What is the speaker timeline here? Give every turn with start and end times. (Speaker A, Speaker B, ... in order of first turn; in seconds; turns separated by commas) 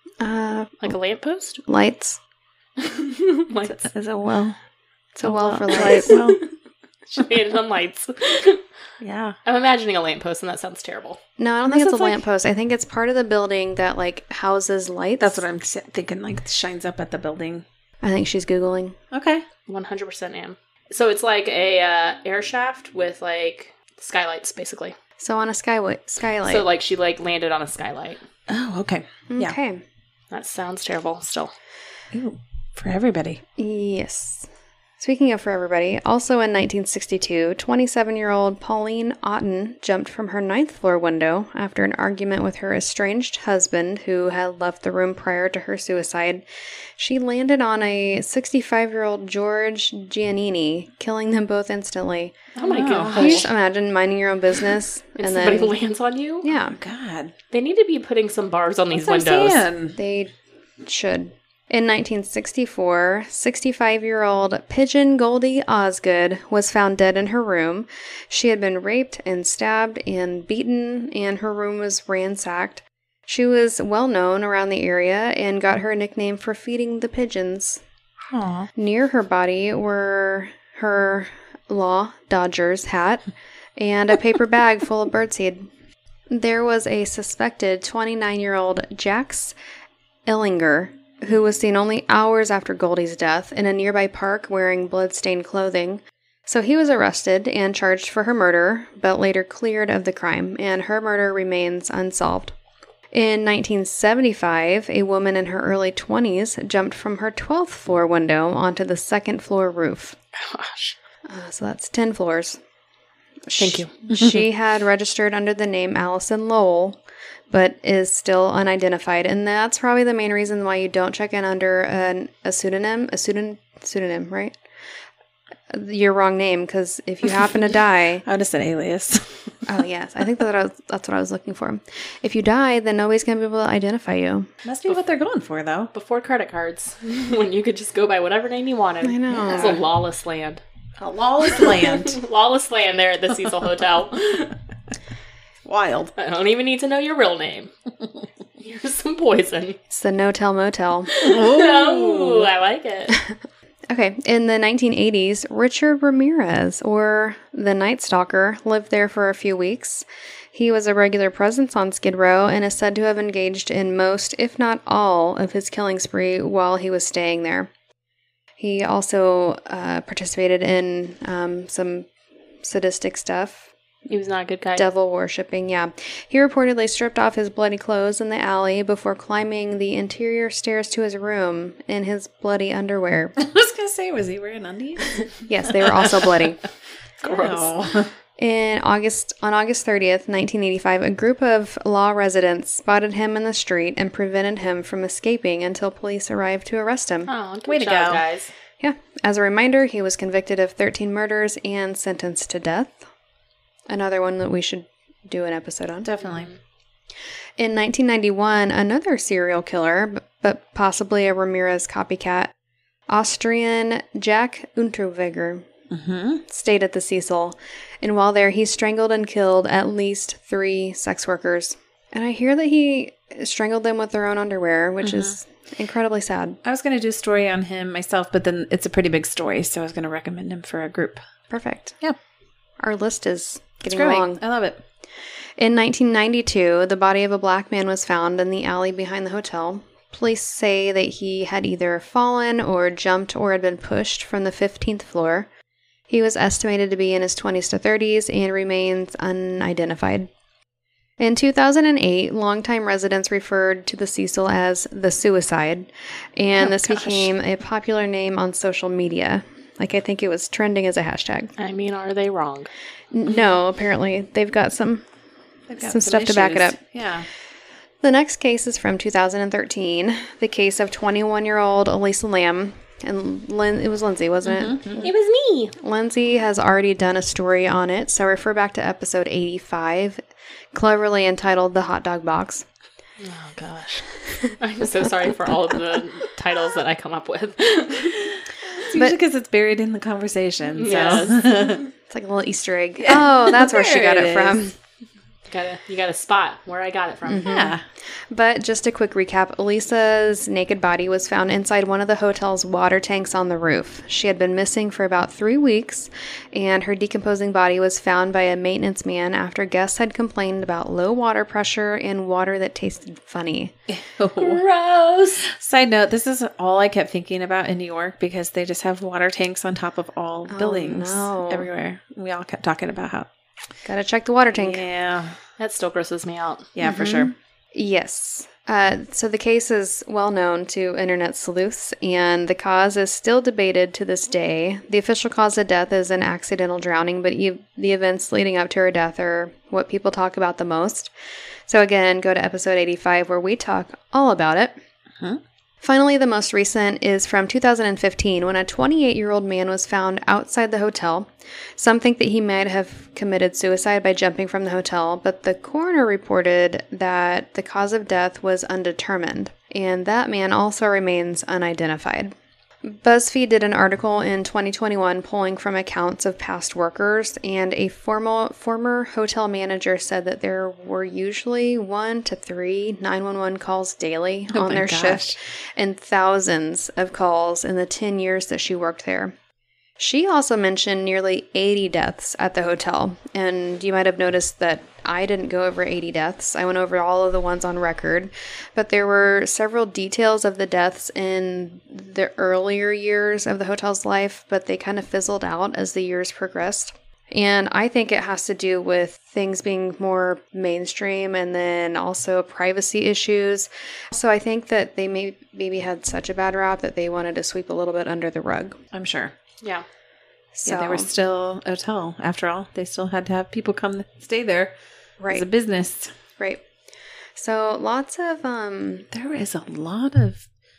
Speaker A: 0.2-0.9, Speaker B: 0.8-1.6, Speaker A: 1.6-2.2, Speaker B: 2.8-3.9, Speaker C: 3.8-4.6, Speaker A: 5.2-6.2, Speaker C: 5.2-6.4, Speaker B: 5.7-6.5, Speaker B: 7.1-8.6, Speaker C: 9.0-9.4, Speaker B: 9.5-12.2, Speaker A: 11.4-15.4, Speaker C: 15.2-17.6, Speaker A: 18.0-19.0, Speaker C: 19.1-19.4, Speaker B: 19.7-25.0, Speaker A: 25.2-26.7, Speaker B: 26.5-28.2, Speaker C: 28.5-29.6, Speaker A: 29.3-29.8, Speaker B: 30.3-31.5, Speaker C: 32.1-33.4, Speaker A: 33.6-34.5, Speaker A: 35.0-46.5, Speaker A: 47.0-52.5, Speaker B: 52.6-53.5, Speaker C: 52.6-53.5, Speaker A: 53.1-55.7, Speaker B: 55.2-56.5, Speaker A: 56.4-56.8, Speaker C: 56.7-57.3, Speaker B: 57.5-59.6, Speaker C: 58.9-60.0, Speaker A: 60.0-77.8, Speaker C: 78.3-78.7, Speaker A: 78.8-83.2, Speaker A: 83.8-85.7, Speaker A: 86.3-89.5, Speaker A: 90.3-102.5, Speaker A: 103.1-110.2, Speaker B: 110.4-111.0, Speaker A: 111.3-112.6, Speaker A: 113.5-117.0, Speaker B: 113.6-113.9, Speaker A: 117.5-124.6, Speaker A: 125.7-128.2, Speaker C: 128.2-129.5, Speaker A: 129.7-134.5, Speaker C: 134.6-135.9, Speaker B: 135.9-140.6, Speaker A: 139.0-139.8, Speaker C: 141.0-142.2, Speaker B: 141.6-144.5, Speaker C: 145.6-146.1, Speaker B: 146.2-147.7, Speaker B: 148.6-149.8, Speaker A: 149.9-151.1, Speaker B: 151.1-153.2, Speaker C: 151.2-152.5, Speaker A: 153.9-167.7, Speaker A: 168.6-172.1, Speaker A: 172.6-173.7, Speaker B: 174.1-174.8, Speaker A: 174.8-183.4, Speaker C: 183.4-186.4, Speaker A: 185.5-186.6, Speaker B: 187.2-187.7, Speaker C: 187.2-188.1, Speaker A: 188.4-197.3, Speaker B: 197.3-198.5, Speaker C: 197.7-198.2, Speaker A: 198.8-203.1, Speaker A: 203.9-206.1, Speaker C: 206.0-206.5, Speaker A: 207.6-212.5, Speaker A: 213.1-215.7, Speaker C: 215.9-216.4, Speaker A: 216.5-226.6, Speaker C: 225.0-225.3, Speaker C: 226.7-231.2, Speaker A: 231.5-232.0, Speaker A: 232.8-234.4, Speaker C: 233.8-234.8, Speaker A: 235.6-245.5, Speaker A: 246.1-250.3, Speaker A: 251.2-261.5, Speaker C: 256.6-257.3, Speaker B: 261.6-262.7, Speaker A: 263.1-265.1, Speaker C: 265.7-267.3, Speaker A: 265.8-266.8, Speaker A: 268.0-275.1, Speaker C: 274.5-275.1, Speaker B: 275.0-275.8, Speaker A: 275.8-280.2, Speaker A: 280.7-282.7, Speaker B: 283.2-288.4, Speaker C: 288.8-291.9, Speaker A: 288.9-289.2, Speaker B: 290.8-291.8, Speaker A: 292.1-294.7, Speaker C: 293.0-294.6, Speaker B: 295.5-297.5, Speaker A: 297.3-297.8, Speaker C: 297.4-297.8, Speaker A: 298.3-313.7, Speaker C: 313.9-314.6, Speaker B: 314.4-315.5, Speaker C: 315.4-323.3, Speaker A: 320.5-321.7, Speaker A: 323.9-324.9, Speaker C: 324.5-325.4, Speaker B: 325.6-326.7, Speaker C: 326.8-327.3, Speaker A: 326.8-341.1, Speaker A: 341.7-344.8, Speaker A: 345.8-379.4, Speaker C: 374.5-375.4, Speaker A: 380.0-408.8, Speaker C: 408.9-409.3, Speaker A: 410.6-411.1, Speaker C: 410.6-414.7, Speaker A: 415.2-415.4, Speaker C: 415.3-416.1, Speaker A: 417.4-419.1, Speaker C: 419.1-420.5